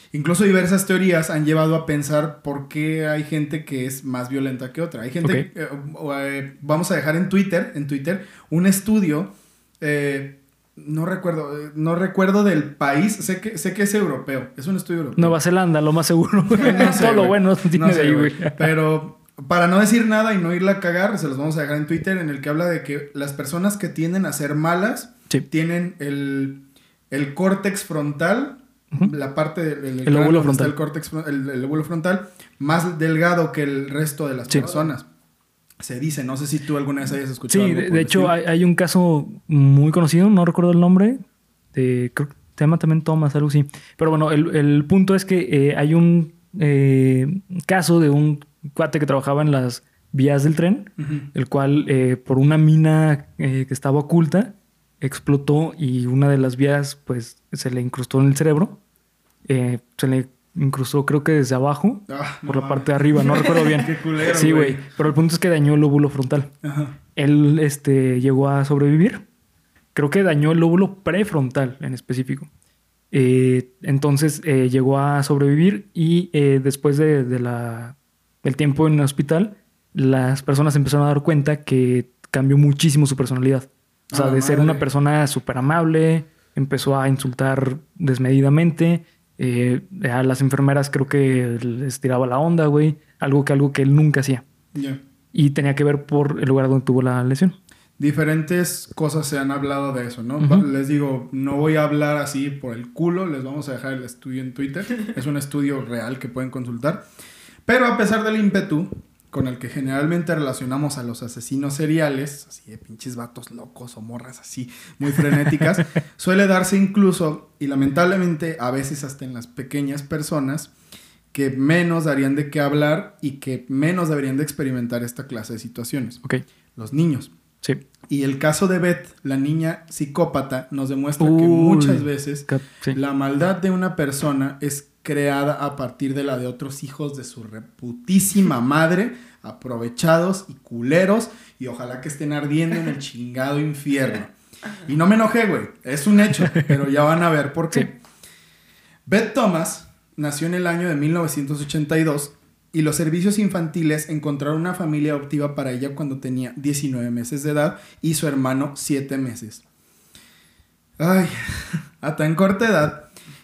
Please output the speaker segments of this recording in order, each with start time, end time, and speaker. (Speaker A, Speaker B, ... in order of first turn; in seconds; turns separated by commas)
Speaker A: 0.1-15.4, Speaker B: 15.2-18.7, Speaker A: 16.5-35.1, Speaker B: 30.1-30.7, Speaker A: 35.8-38.3, Speaker B: 37.5-41.2, Speaker B: 41.7-58.8, Speaker A: 51.0-51.3, Speaker B: 59.5-66.5, Speaker A: 62.1-64.9, Speaker A: 66.6-67.0, Speaker B: 67.2-69.2, Speaker B: 70.0-72.5, Speaker B: 73.1-94.4, Speaker A: 84.1-84.9, Speaker A: 94.7-95.0, Speaker B: 95.3-97.6, Speaker A: 98.0-107.0, Speaker B: 100.4-100.7, Speaker A: 107.7-120.7, Speaker A: 121.3-126.2, Speaker A: 126.8-127.3, Speaker A: 128.1-144.3, Speaker B: 131.2-133.0, Speaker A: 144.9-148.0, Speaker A: 149.1-159.6, Speaker A: 161.0-163.1